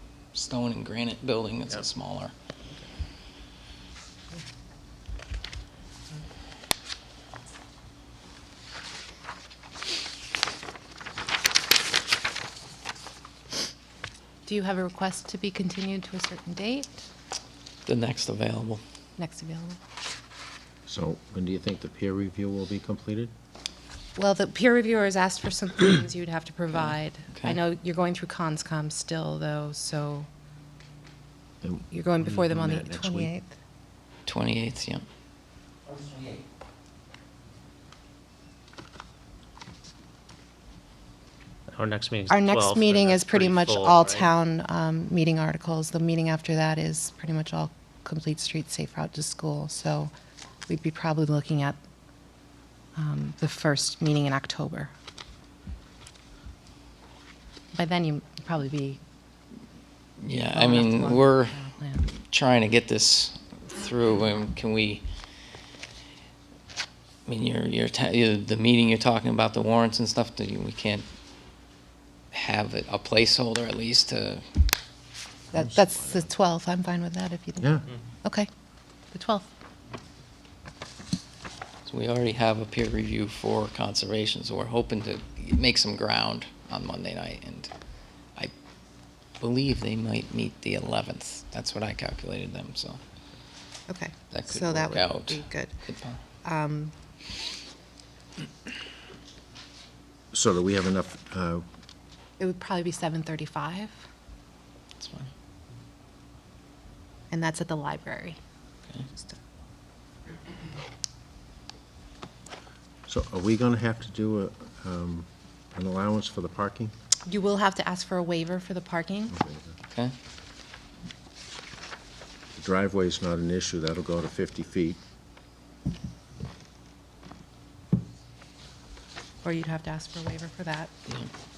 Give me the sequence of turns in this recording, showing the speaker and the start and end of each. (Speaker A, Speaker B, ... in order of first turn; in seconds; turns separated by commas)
Speaker A: 0.3-2.3, Speaker B: 14.5-17.0, Speaker A: 17.9-18.8, Speaker B: 19.2-19.8, Speaker C: 20.9-23.3, Speaker B: 24.2-30.3, Speaker A: 26.7-27.6, Speaker C: 31.6-33.3, Speaker B: 31.9-33.5, Speaker A: 34.3-35.0, Speaker D: 41.7-44.3, Speaker B: 42.3-50.1, Speaker B: 50.7-51.8, Speaker B: 53.0-54.9, Speaker B: 57.7-59.0, Speaker A: 60.2-65.0, Speaker B: 60.5-62.1, Speaker A: 67.3-71.1, Speaker A: 72.3-74.5, Speaker B: 75.5-78.5, Speaker B: 79.1-79.5, Speaker A: 81.8-87.7, Speaker A: 89.4-93.0, Speaker B: 93.9-95.7, Speaker A: 94.3-96.2, Speaker B: 96.4-96.9, Speaker C: 100.3-101.6, Speaker B: 102.4-104.0, Speaker A: 105.0-105.3, Speaker B: 107.3-108.4, Speaker B: 109.1-109.4, Speaker C: 113.1-116.9, Speaker B: 117.3-119.4, Speaker C: 119.3-119.6, Speaker C: 122.6-125.0, Speaker B: 129.4-130.9